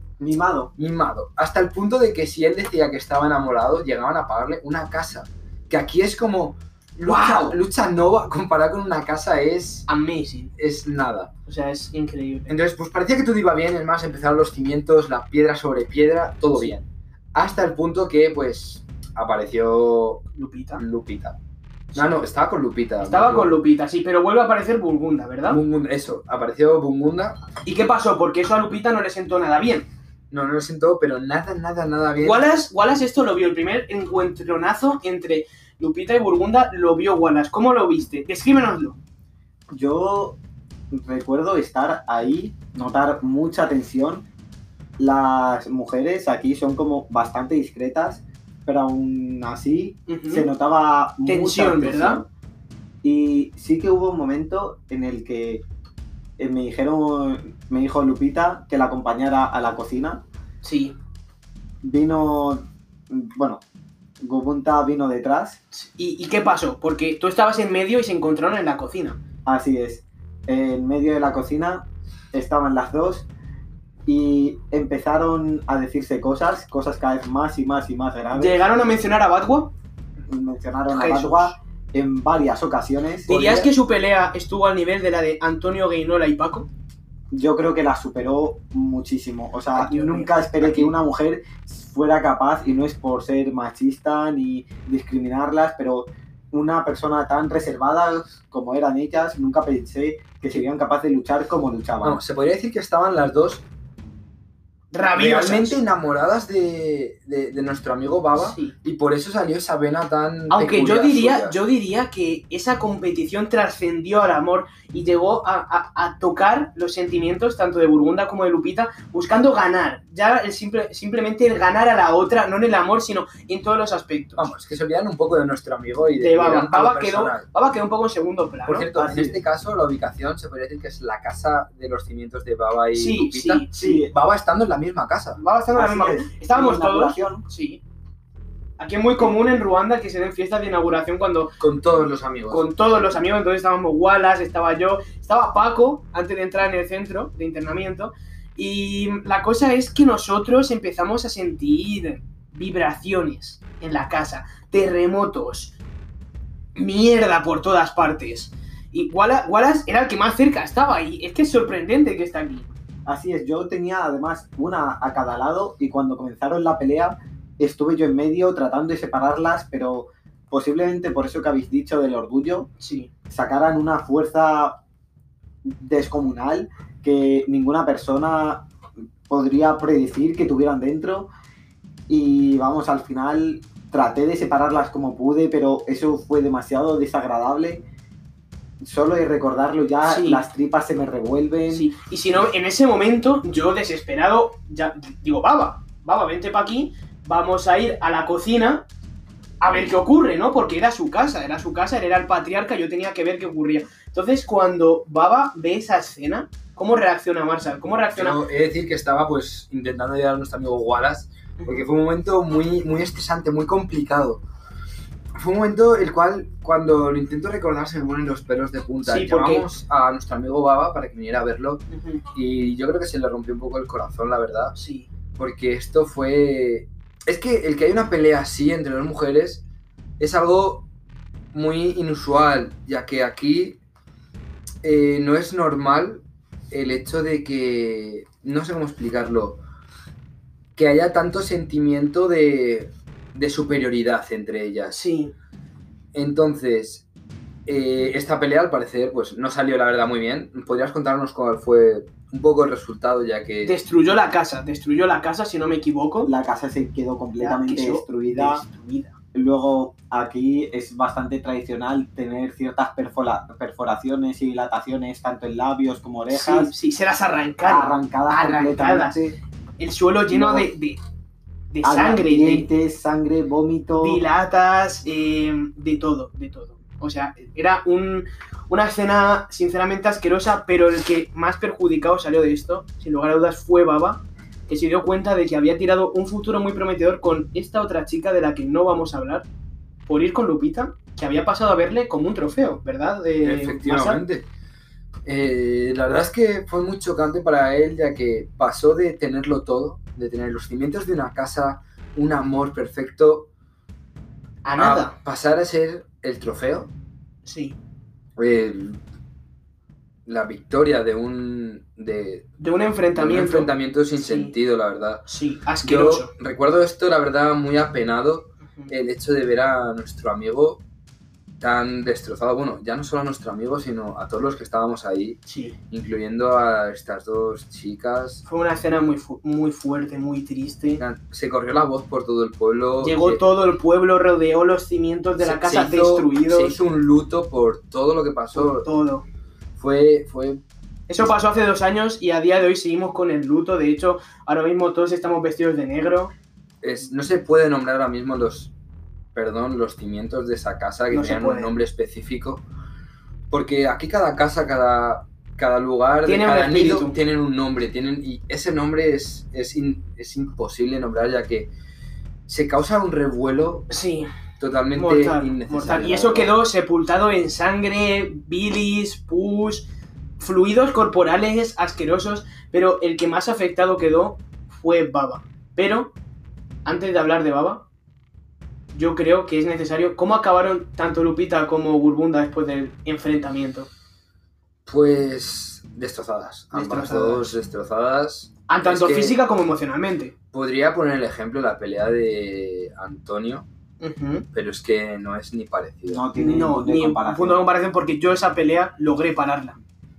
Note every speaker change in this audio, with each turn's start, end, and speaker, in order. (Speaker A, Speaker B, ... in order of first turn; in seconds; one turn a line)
Speaker A: 0.2-0.7
Speaker B: 0.8-9.9
Speaker C: 7.1-7.6
Speaker C: 9.9-10.5
Speaker B: 10.6-11.3
Speaker C: 11.5-12.5
Speaker B: 12.5-20.2
Speaker C: 20.3-20.8
Speaker B: 20.8-21.4
Speaker B: 21.9-23.6
Speaker C: 23.0-25.6
Speaker B: 25.5-27.4
Speaker C: 27.6-29.9
Speaker B: 30.3-32.5
Speaker C: 32.2-39.0
Speaker A: 39.7-40.4
Speaker A: 40.9-44.3
Speaker A: 45.0-52.3
Speaker C: 50.1-50.5
Speaker C: 51.3-52.2
Speaker A: 53.0-55.6
Speaker A: 56.4-60.2
Speaker C: 60.6-61.0
Speaker A: 61.8-63.6
Speaker A: 64.2-65.6
Speaker C: 65.7-69.2
Speaker A: 69.5-73.3
Speaker A: 74.1-78.6
Speaker C: 78.3-79.7
Speaker A: 80.3-83.3
Speaker C: 80.9-81.6
Speaker C: 83.3-86.7
Speaker B: 83.3-83.7
Speaker A: 87.3-102.2
Speaker C: 89.7-90.9
Speaker B: 102.0-103.7
Speaker C: 104.9-105.8
Speaker B: 105.2-111.6
Speaker C: 108.4-108.8
Speaker C: 110.5-124.5
Speaker B: 124.4-127.5
Speaker C: 126.2-128.9
Speaker B: 128.7-135.4
Speaker A: 128.9-129.4
Speaker C: 132.9-134.1
Speaker A: 133.8-134.1
Speaker C: 135.4-137.8
Speaker A: 135.7-137.4
Speaker C: 138.8-141.5
Speaker B: 141.6-142.7
Speaker C: 142.5-155.8
Speaker C: 156.8-162.7
Speaker A: 163.1-172.7
Speaker C: 172.8-173.1
Speaker A: 173.3-174.8
Speaker A: 175.7-178.7
Speaker A: 179.3-181.3
Speaker A: 182.1-187.8
Speaker A: 188.8-191.9
Speaker C: 190.1-190.4
Speaker C: 191.7-198.9
Speaker C: 199.6-208.4
Speaker B: 208.1-214.4
Speaker C: 211.6-211.9
Speaker B: 215.4-224.8
Speaker C: 219.0-219.7
Speaker C: 221.9-222.2
Speaker C: 224.8-225.1
Speaker B: 225.4-229.6
Speaker B: 230.2-230.9
Speaker B: 231.5-233.8
Speaker B: 234.8-239.6
Speaker B: 240.8-245.0
Speaker C: 244.9-245.3
Speaker B: 246.1-247.0
Speaker B: 247.7-253.8
Speaker C: 253.6-256.3
Speaker A: 256.2-258.6
Speaker C: 257.4-259.1
Speaker A: 259.3-266.7
Speaker C: 266.3-269.2
Speaker A: 267.6-269.4
Speaker C: 269.8-271.0
Speaker A: 270.3-270.7
Speaker C: 271.7-272.7
Speaker A: 271.8-274.2
Speaker C: 274.0-289.5
Speaker C: 290.1-294.2
Speaker B: 293.4-294.5
Speaker B: 295.2-303.5
Speaker C: 304.6-305.1
Speaker B: 304.8-306.9
Speaker C: 307.5-307.8
Speaker B: 308.4-309.0
Speaker B: 310.3-312.5
Speaker C: 312.6-314.5
Speaker B: 313.1-315.3
Speaker C: 315.3-316.3
Speaker B: 315.8-320.8
Speaker B: 321.6-325.4
Speaker C: 325.5-325.8
Speaker B: 325.9-328.5
Speaker C: 328.5-331.0
Speaker B: 331.0-333.4
Speaker C: 333.0-336.8
Speaker B: 335.4-338.9
Speaker C: 338.6-339.2
Speaker B: 339.8-340.6
Speaker C: 341.1-346.3
Speaker B: 346.8-348.7
Speaker B: 349.3-352.6
Speaker C: 351.1-351.7
Speaker B: 353.5-361.7
Speaker C: 356.2-357.2
Speaker B: 362.5-363.9
Speaker C: 363.9-364.3
Speaker B: 364.6-366.5
Speaker C: 364.9-369.9
Speaker C: 370.4-376.1
Speaker C: 376.9-377.9
Speaker C: 378.9-383.9
Speaker B: 384.9-389.4
Speaker C: 386.7-387.6
Speaker C: 388.7-390.3
Speaker B: 390.5-393.7
Speaker C: 394.0-394.5
Speaker B: 394.5-396.2
Speaker A: 396.1-397.6
Speaker C: 396.4-399.8